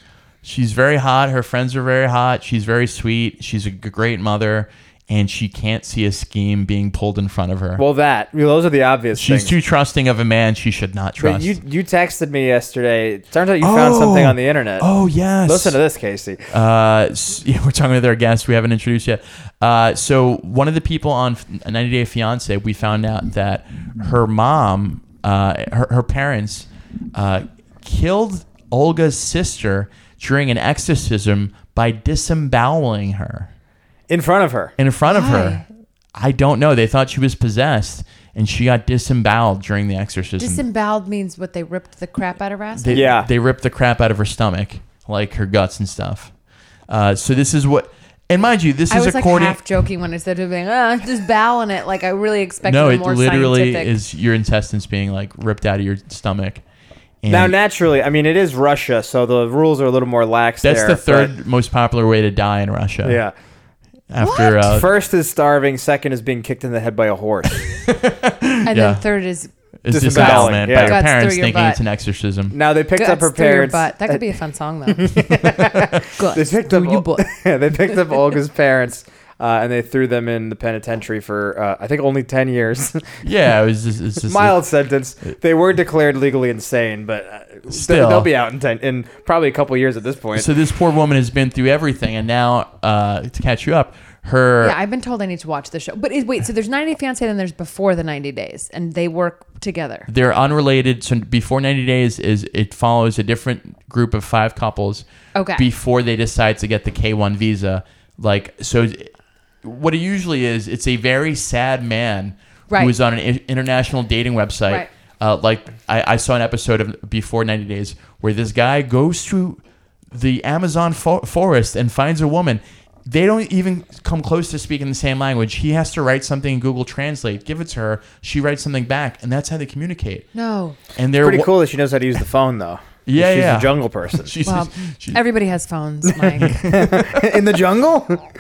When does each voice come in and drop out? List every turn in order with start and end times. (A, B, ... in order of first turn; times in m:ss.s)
0:00.4-0:07.8 A
0:07.8-0:09.5 B
0:09.1-0:11.5 A
0:11.2-0:14.9 B
0:13.6-0:15.8 A
0:15.4-0:16.5 B
0:16.5-0:33.5 A
0:34.1-0:34.7 B
0:34.8-0:35.6 A
0:35.1-0:35.6 C
0:36.1-0:40.6 A
0:40.4-0:43.0 C
0:42.7-0:46.3 A
0:42.9-0:43.3 B
0:46.9-0:49.6 A
0:48.9-0:53.9 C
0:52.6-0:56.6 A
0:57.2-0:57.5 A
0:57.3-1:01.3 B
1:00.6-1:03.2 A
1:03.0-1:03.3 B
1:04.1-1:04.9 A
1:04.2-1:04.6 C
1:04.6-1:07.6 B
1:07.5-1:09.0 A
1:08.6-1:09.5 C
1:09.8-1:12.5 A
1:09.9-1:11.0 B
1:10.1-1:11.8 C
1:12.5-1:14.2 B
1:13.0-1:17.3 C
1:14.9-1:23.2 B
1:23.2-1:24.6 A
1:24.2-1:30.5 B
1:27.7-1:28.3 A
1:30.3-1:34.8 A
1:34.6-1:40.1 C
1:40.1-1:59.6 A
1:45.3-1:45.6 C
1:52.7-1:52.9 C
2:00.1-2:10.2 A
2:10.3-2:10.8 C
2:11.0-2:11.5 A
2:11.2-2:14.3 B
2:13.0-2:15.2 A
2:14.4-2:16.6 C
2:16.4-2:17.1 A
2:16.4-2:18.3 B